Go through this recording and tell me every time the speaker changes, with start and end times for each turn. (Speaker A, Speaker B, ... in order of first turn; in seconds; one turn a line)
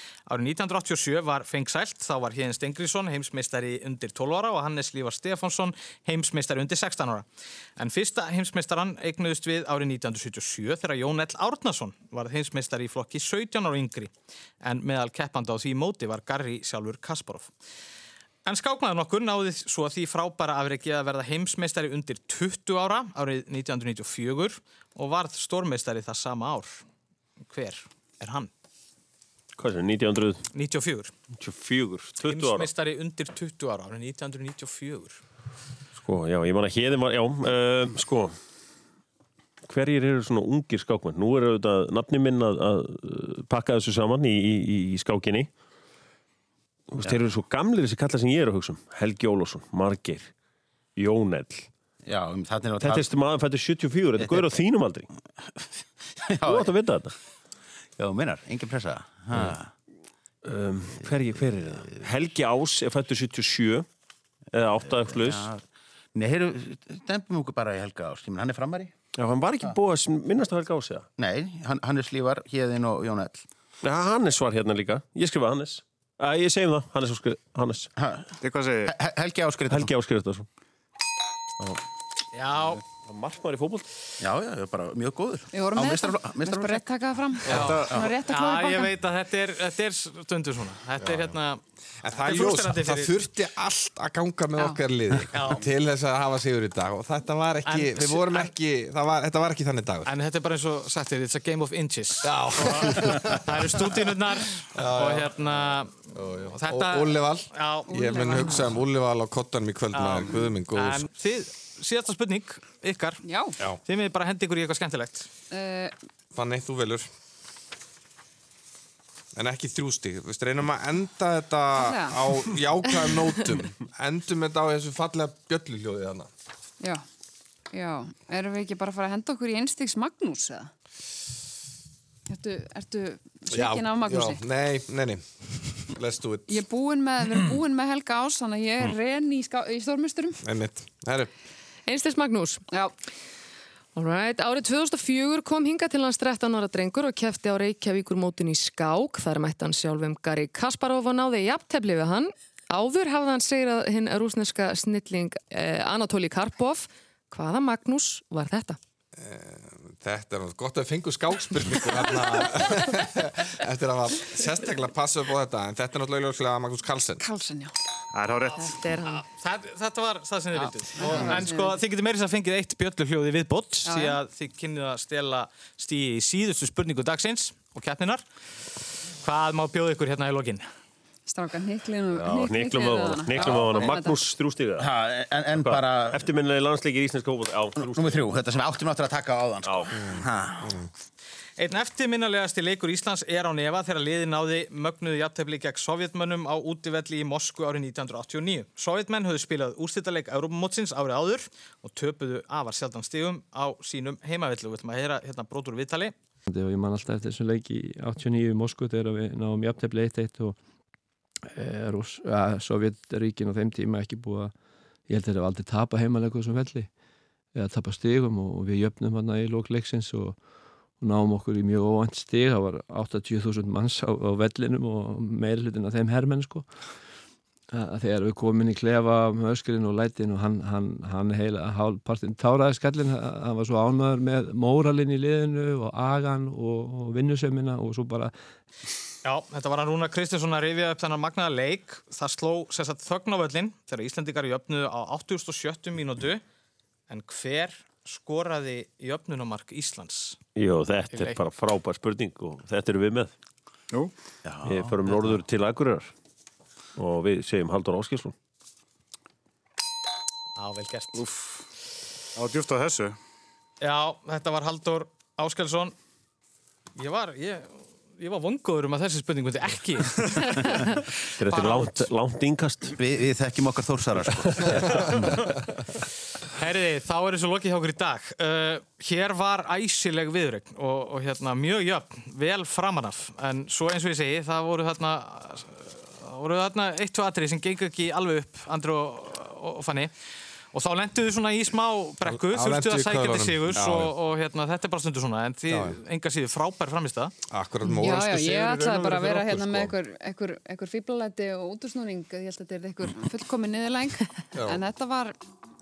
Speaker A: 0.3-7.2
Speaker A: 7.8-17.5
Speaker A: 18.4-26.8
Speaker A: 27.5-28.5
Speaker B: 29.6-30.4
Speaker A: 30.5-31.1
Speaker B: 31.4-32.7
Speaker A: 32.2-35.2
Speaker B: 36.0-38.4
Speaker B: 39.7-45.5
Speaker B: 46.9-50.3
Speaker B: 51.0-51.7
Speaker C: 52.0-53.1
Speaker B: 52.8-55.1
Speaker C: 54.2-54.6
Speaker C: 55.4-56.7
Speaker B: 56.4-57.1
Speaker C: 58.0-59.7
Speaker B: 60.4-63.9
Speaker C: 61.6-61.9
Speaker B: 64.5-65.5
Speaker C: 64.8-65.6
Speaker C: 66.1-68.9
Speaker B: 69.2-71.0
Speaker C: 71.2-73.4
Speaker B: 73.8-77.9
Speaker C: 78.0-78.3
Speaker D: 78.4-78.9
Speaker C: 78.9-79.9
Speaker B: 79.7-80.5
Speaker A: 82.3-82.8
Speaker B: 83.0-83.8
Speaker C: 84.2-86.8
Speaker E: 85.5-88.9
Speaker A: 87.4-91.6
Speaker D: 87.5-88.0
Speaker F: 91.0-91.3
Speaker F: 92.0-100.1
Speaker A: 92.1-93.1
Speaker A: 95.3-95.7
Speaker A: 97.7-98.5
Speaker A: 100.0-108.2
Speaker F: 102.2-103.9
Speaker F: 104.7-105.3
Speaker F: 106.1-111.0
Speaker E: 107.9-108.8
Speaker A: 109.9-115.3
Speaker E: 113.2-113.6
Speaker E: 115.5-115.9
Speaker F: 116.3-117.1
Speaker F: 119.3-126.3
Speaker E: 121.7-122.4
Speaker E: 126.8-127.0
Speaker E: 127.7-130.7
Speaker E: 132.3-134.4
Speaker F: 133.5-136.6
Speaker E: 136.5-140.4
Speaker F: 140.4-141.3
Speaker G: 141.8-142.6
Speaker G: 143.9-158.8
Speaker F: 159.2-167.2
Speaker E: 167.2-167.7
Speaker D: 168.1-168.7
Speaker G: 168.6-169.2
Speaker A: 169.1-178.2
Speaker E: 170.6-171.8
Speaker E: 173.8-174.2
Speaker A: 179.2-180.7
Speaker E: 181.2-184.2
Speaker B: 182.1-184.9
Speaker C: 184.8-186.2
Speaker B: 185.6-188.2
Speaker C: 187.8-190.8
Speaker B: 189.6-189.9
Speaker A: 191.6-206.1
Speaker H: 206.5-210.6
Speaker H: 211.5-214.5
Speaker H: 215.1-216.9
Speaker H: 217.5-226.7
Speaker H: 227.7-238.3
Speaker A: 239.2-246.4
Speaker A: 247.1-250.4
Speaker B: 250.6-253.3
Speaker A: 251.1-251.4
Speaker C: 254.4-255.4
Speaker B: 254.6-256.1
Speaker B: 256.9-258.3
Speaker A: 260.6-261.2
Speaker D: 261.2-261.6
Speaker D: 262.3-263.2
Speaker A: 263.8-265.9
Speaker A: 266.9-272.1
Speaker B: 271.4-272.9
Speaker C: 273.0-275.3
Speaker A: 276.6-290.1
Speaker A: 290.7-297.3
Speaker F: 292.2-294.1
Speaker F: 295.7-296.0
Speaker F: 297.5-299.9
Speaker E: 297.8-305.4
Speaker F: 304.5-304.8